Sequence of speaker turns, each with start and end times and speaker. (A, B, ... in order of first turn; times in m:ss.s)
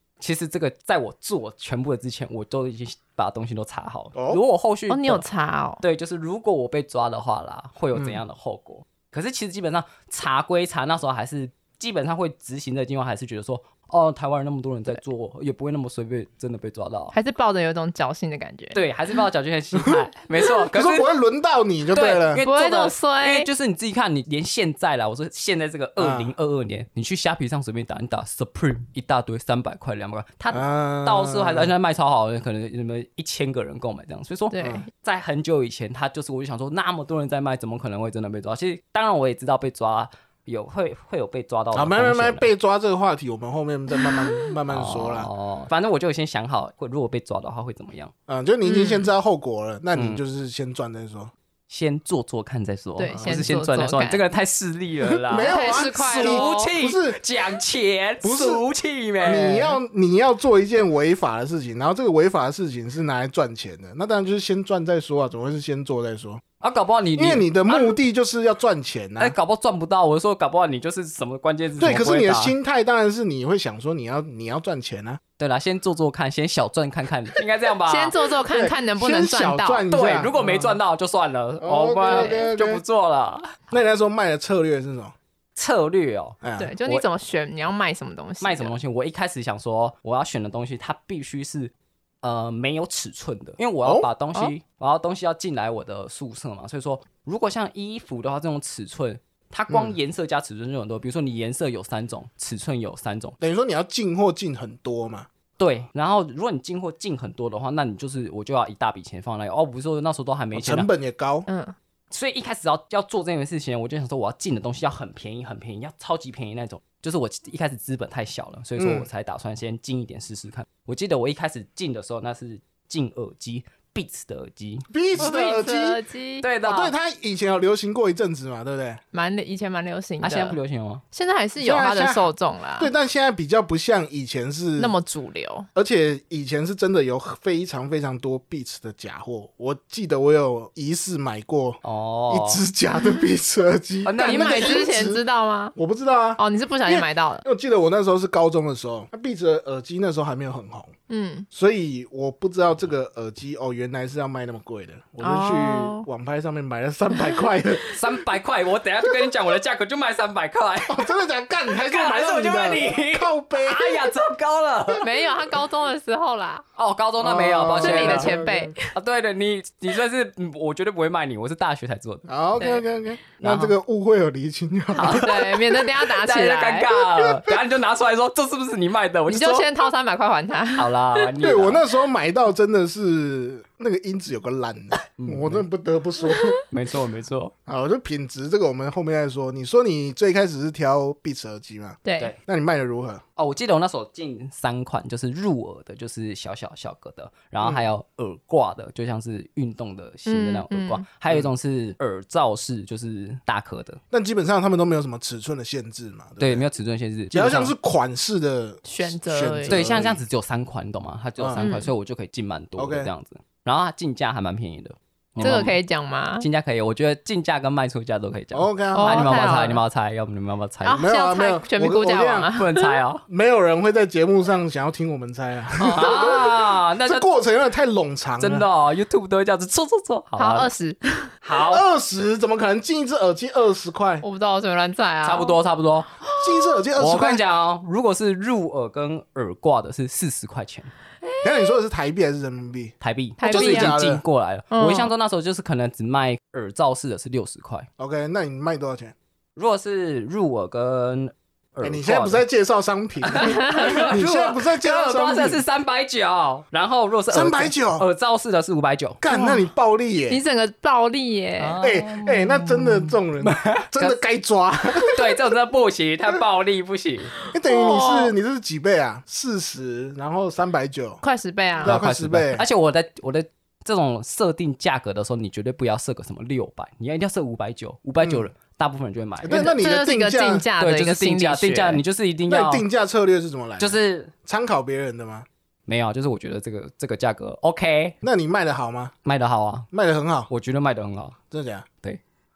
0:00.2-0:05.2 A
0:04.2-0:04.4 B
0:04.9-0:05.8 C
0:05.8-0:17.1 A
0:17.1-0:18.8 C
0:18.7-0:21.0 A
0:20.7-0:22.4 B
0:21.9-0:42.5 A
0:22.4-0:23.5 C
0:26.0-0:26.3 B
0:30.5-0:31.7 B
0:34.5-0:34.9 C
0:41.7-0:45.3 B
0:44.7-0:48.1 A
0:48.3-0:51.3 B
0:48.6-0:49.1 C
0:50.0-0:50.2 A
0:51.7-0:59.8 A
0:53.0-0:54.2 C
0:53.2-0:53.5 B
0:55.2-0:57.2 B
0:55.4-0:56.7 C
0:58.2-0:58.6 B
0:59.2-1:06.4 B
1:06.6-1:08.0 A
1:07.2-1:09.4 B
1:09.2-1:12.6 A
1:11.8-1:15.2 B
1:15.4-1:18.1 A
1:17.9-1:19.8 C
1:18.5-1:20.8 B
1:19.9-1:23.6 A
1:21.6-1:22.8 B
1:22.1-1:22.5 C
1:23.7-1:25.1 B
1:25.6-1:27.0 A
1:26.4-1:26.7 B
1:26.6-1:28.7 C
1:28.4-1:43.4 A
1:39.7-1:40.0 B
1:43.4-1:45.3 B
1:45.6-1:50.9 A
1:50.5-1:51.5 B
1:51.5-1:51.8 C
1:52.1-2:04.9 A
1:58.8-1:59.1 B
2:04.9-2:06.0 B
2:05.2-2:06.5 C
2:06.4-2:06.9 A
2:06.6-2:09.0 B
2:09.1-2:10.6 C
2:10.2-2:11.0 A
2:11.1-2:12.9 C
2:11.6-2:12.3 B
2:12.8-2:14.9 B
2:14.8-2:15.7 C
2:15.8-2:25.2 B
2:21.8-2:22.6 A
2:24.0-2:24.8 A
2:24.2-2:25.8 C
2:25.8-2:30.9 B
2:26.4-2:27.4 C
2:31.1-2:31.5 C
2:31.5-2:37.9 B
2:35.2-2:36.1 C
2:37.9-2:41.1 A
2:40.9-2:44.1 B
2:41.8-2:45.1 A
2:45.0-2:46.6 C
2:46.8-2:52.3 A
2:47.2-2:48.8 B
2:47.8-2:48.9 C
2:52.3-2:55.6 B
2:52.6-2:52.8 C
2:53.4-2:53.8 A
2:55.0-2:59.7 A
2:55.0-2:56.9 C
2:59.3-3:00.9 C
3:00.8-3:01.8 A
3:01.4-3:06.6 B
3:05.2-3:05.6 A
3:06.7-3:07.5 A
3:07.7-3:13.2 B
3:12.0-3:12.3 C
3:13.4-3:24.0 A
3:17.6-3:17.9 B
3:20.3-3:21.0 C
3:24.1-3:26.6 B
3:26.4-3:27.7 A
3:27.3-3:30.2 B
3:28.8-3:29.9 C
3:29.7-3:35.8 A
3:31.4-3:31.7 B
3:31.6-3:31.9 C
3:32.8-3:33.1 B
3:35.4-3:36.5 C
3:36.4-3:41.1 A
3:38.5-3:39.5 B
3:38.9-3:39.8 C
3:40.8-3:43.0 C
3:41.0-3:42.5 B
3:42.6-3:43.2 A
3:43.3-3:48.6 B
3:45.8-3:47.3 A
3:45.9-3:46.4 C
3:48.4-3:50.7 A
3:50.4-3:51.3 C
3:51.4-3:51.8 A
3:51.6-3:54.2 B
3:54.2-3:55.6 C
3:55.2-3:56.1 A
3:56.3-3:56.7 C
3:56.4-3:57.4 B
3:57.0-4:00.9 A
4:01.2-4:01.7 C
4:01.4-4:04.2 B
4:03.0-4:07.9 A
4:03.4-4:03.9 C
4:04.7-4:05.1 C
4:08.0-4:09.1 B
4:09.6-4:12.4 A
4:11.8-4:15.6 B
4:13.2-4:19.2 A
4:13.4-4:14.0 C
4:17.3-4:18.1 B
4:19.2-4:20.4 B
4:19.3-4:19.7 C
4:20.3-4:21.8 C
4:21.6-4:24.2 A
4:21.8-4:25.2 B
4:25.0-4:27.3 A
4:27.5-4:31.2 B
4:27.6-4:28.3 C
4:31.2-4:32.0 C
4:31.8-4:32.6 B
4:31.8-4:39.8 A
4:38.2-4:38.5 B
4:39.4-4:40.6 B
4:39.5-4:42.0 C
4:40.8-4:42.8 A
4:42.5-4:45.5 B
4:43.8-4:44.3 A
4:45.9-4:48.2 A
4:48.2-4:49.1 B
4:49.2-4:49.9 A
4:49.9-4:50.5 B
4:50.5-4:51.4 A
4:51.5-4:51.9 B